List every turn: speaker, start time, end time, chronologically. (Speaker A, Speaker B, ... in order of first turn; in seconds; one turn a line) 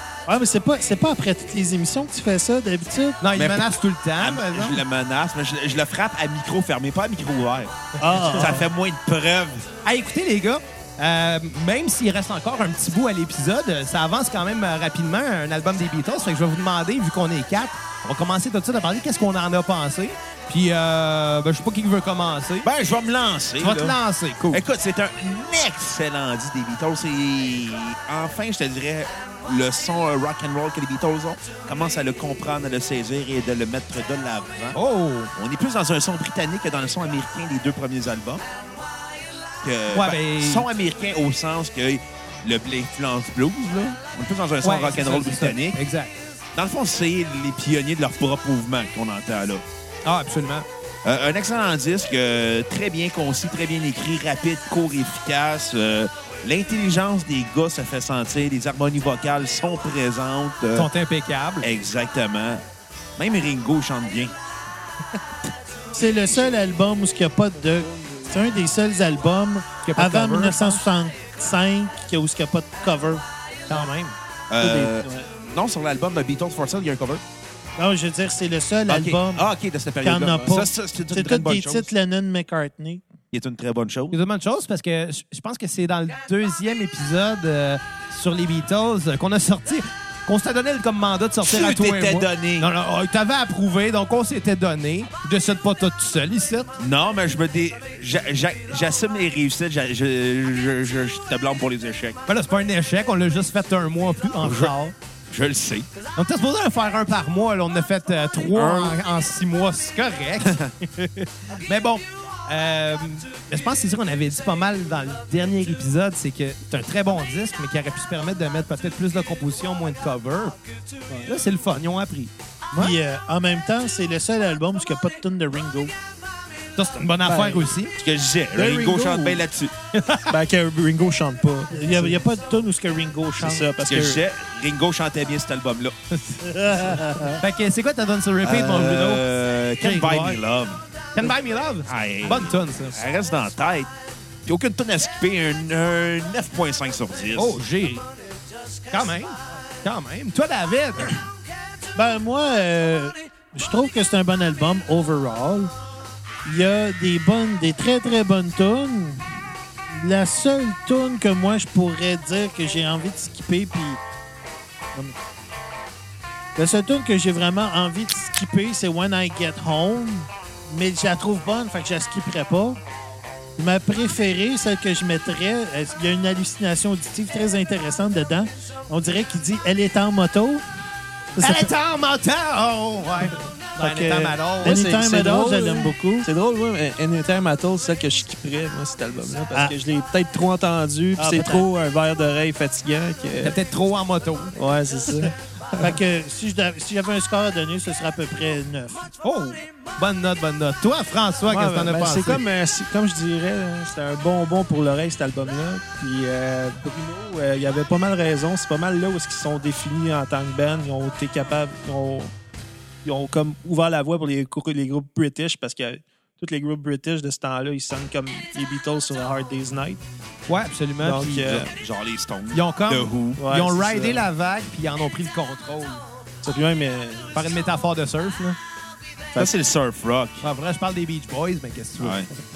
Speaker A: 0.3-3.2
Speaker B: 3.2-4.8
Speaker C: 3.3-9.7
Speaker A: 8.0-8.6
Speaker B: 8.1-8.3
Speaker B: 9.8-22.7
Speaker C: 22.6-24.0
Speaker B: 23.6-24.6
Speaker C: 24.5-34.8
Speaker B: 34.7-35.3
Speaker C: 35.3-38.4
Speaker C: 39.6-45.8
Speaker B: 39.9-40.6
Speaker B: 44.6-46.2
Speaker C: 46.5-49.6
Speaker B: 50.0-50.6
Speaker C: 51.0-60.9
Speaker B: 60.7-61.6
Speaker C: 61.6-62.6
Speaker C: 63.2-64.3
Speaker A: 65.9-73.2
Speaker D: 67.6-68.5
Speaker B: 69.8-70.8
Speaker B: 73.7-74.2
Speaker C: 74.5-77.2
Speaker D: 74.6-75.3
Speaker A: 77.8-79.5
Speaker C: 78.9-81.9
Speaker A: 80.0-83.0
Speaker C: 83.3-84.2
Speaker B: 84.1-96.7
Speaker C: 91.4-92.7
Speaker C: 96.8-102.2
Speaker B: 102.3-104.9
Speaker C: 104.4-104.7
Speaker C: 105.3-105.9
Speaker B: 106.2-120.5
Speaker C: 108.5-109.0
Speaker C: 110.4-110.7
Speaker B: 121.2-122.9
Speaker A: 122.7-125.9
Speaker B: 126.8-127.9
Speaker D: 127.2-127.7
Speaker C: 128.0-129.7
Speaker D: 128.5-129.4
Speaker B: 129.9-130.3
Speaker D: 130.3-132.2
Speaker A: 131.7-133.7
Speaker D: 133.4-134.2
Speaker C: 133.8-135.9
Speaker A: 136.4-137.4
Speaker B: 137.4-139.2
Speaker C: 138.4-140.8
Speaker B: 139.8-140.4
Speaker B: 141.1-143.0
Speaker C: 141.8-143.9
Speaker C: 144.4-147.6
Speaker B: 147.3-148.0
Speaker B: 148.9-151.2
Speaker A: 151.9-155.7
Speaker A: 156.4-159.3
Speaker A: 159.9-164.0
Speaker A: 166.6-172.8
Speaker A: 173.6-180.6
Speaker A: 181.3-181.7
Speaker B: 181.4-184.9
Speaker A: 183.8-186.3
Speaker D: 184.6-193.6
Speaker A: 191.2-191.7
Speaker B: 193.4-194.5
Speaker D: 194.5-195.9
Speaker A: 195.8-199.1
Speaker B: 199.2-202.4
Speaker D: 201.5-212.3
Speaker D: 213.0-220.0
Speaker B: 220.5-221.5
Speaker D: 221.0-221.7
Speaker C: 221.5-223.4
Speaker B: 222.5-226.0
Speaker D: 223.4-224.3
Speaker D: 226.4-227.6
Speaker B: 227.3-228.6
Speaker C: 229.3-230.4
Speaker B: 230.4-232.4
Speaker C: 232.0-232.3